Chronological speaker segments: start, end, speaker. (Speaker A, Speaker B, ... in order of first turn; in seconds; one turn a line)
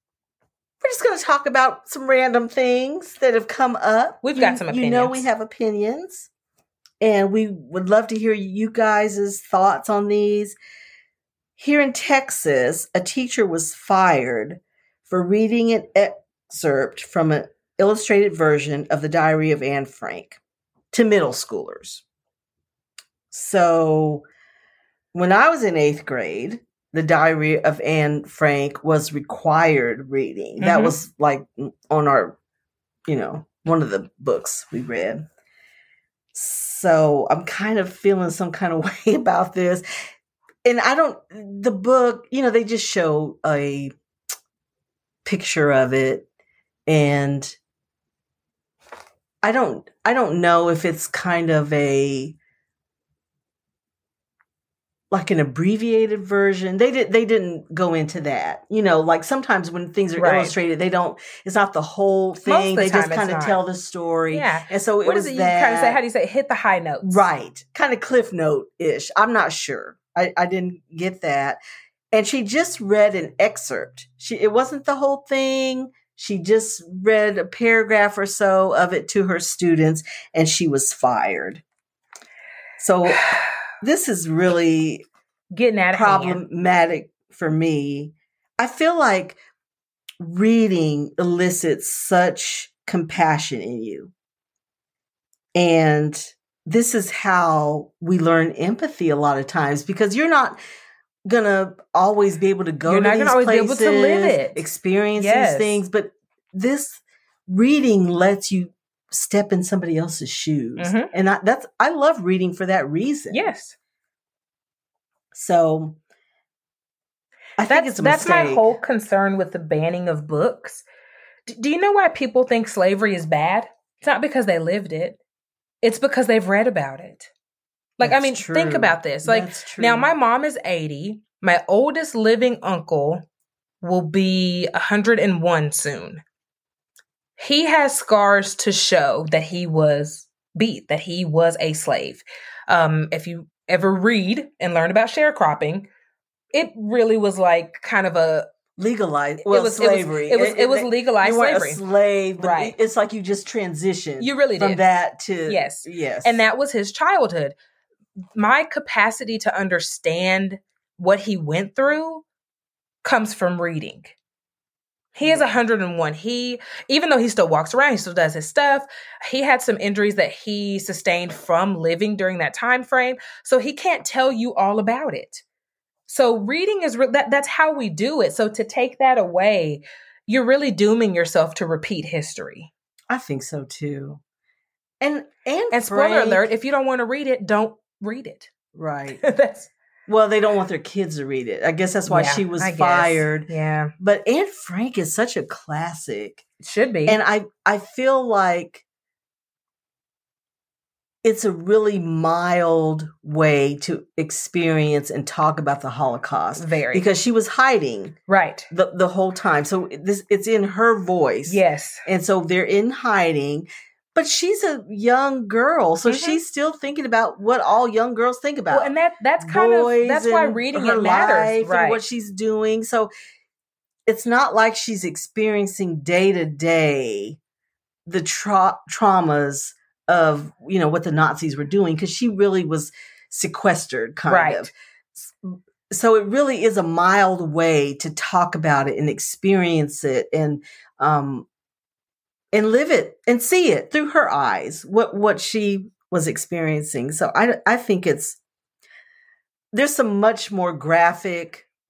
Speaker A: 0.8-6.3
Speaker B: 4.2-5.3
Speaker A: 7.0-10.6
Speaker A: 11.6-20.4
Speaker A: 20.9-22.0
Speaker A: 23.3-24.2
Speaker A: 25.1-32.4
Speaker B: 30.6-31.0
Speaker A: 33.1-35.2
Speaker A: 36.3-39.8
Speaker A: 40.6-43.9
Speaker A: 45.2-46.3
Speaker A: 46.9-47.6
Speaker A: 49.4-52.4
Speaker A: 55.1-66.0
Speaker B: 60.2-60.6
Speaker B: 62.4-63.6
Speaker B: 64.3-67.2
Speaker A: 67.0-71.6
Speaker A: 72.1-81.6
Speaker A: 82.8-85.1
Speaker B: 85.5-86.4
Speaker A: 85.9-89.4
Speaker A: 90.2-94.1
Speaker A: 95.5-100.6
Speaker A: 101.2-113.5
Speaker B: 102.9-104.7
Speaker B: 105.2-105.8
Speaker B: 110.8-111.1
Speaker B: 113.3-113.8
Speaker A: 115.3-116.0
Speaker A: 117.6-118.7
Speaker B: 117.7-120.8
Speaker B: 121.5-125.2
Speaker B: 125.8-127.3
Speaker B: 128.0-133.3
Speaker A: 128.0-130.1
Speaker B: 133.8-136.2
Speaker B: 137.4-145.9
Speaker B: 146.5-148.5
Speaker A: 148.8-156.4
Speaker B: 149.4-151.8
Speaker B: 152.4-152.8
Speaker B: 154.2-154.8
Speaker B: 155.5-157.6
Speaker B: 158.3-162.2
Speaker B: 163.0-164.2
Speaker B: 165.2-175.4
Speaker B: 176.1-182.7
Speaker A: 183.1-184.2
Speaker A: 185.0-186.5
Speaker B: 185.7-188.5
Speaker A: 188.7-189.2
Speaker B: 189.2-189.7
Speaker A: 190.1-196.4
Speaker B: 192.1-193.9
Speaker B: 196.6-197.2
Speaker A: 197.1-198.8
Speaker A: 201.2-208.2
Speaker B: 206.6-207.1
Speaker B: 208.3-208.7
Speaker A: 208.7-223.1
Speaker B: 211.5-212.1
Speaker B: 216.1-216.4
Speaker B: 218.7-222.0
Speaker A: 224.1-227.4
Speaker A: 228.1-241.5
Speaker B: 234.3-234.7
Speaker A: 242.5-248.4
Speaker A: 249.7-251.7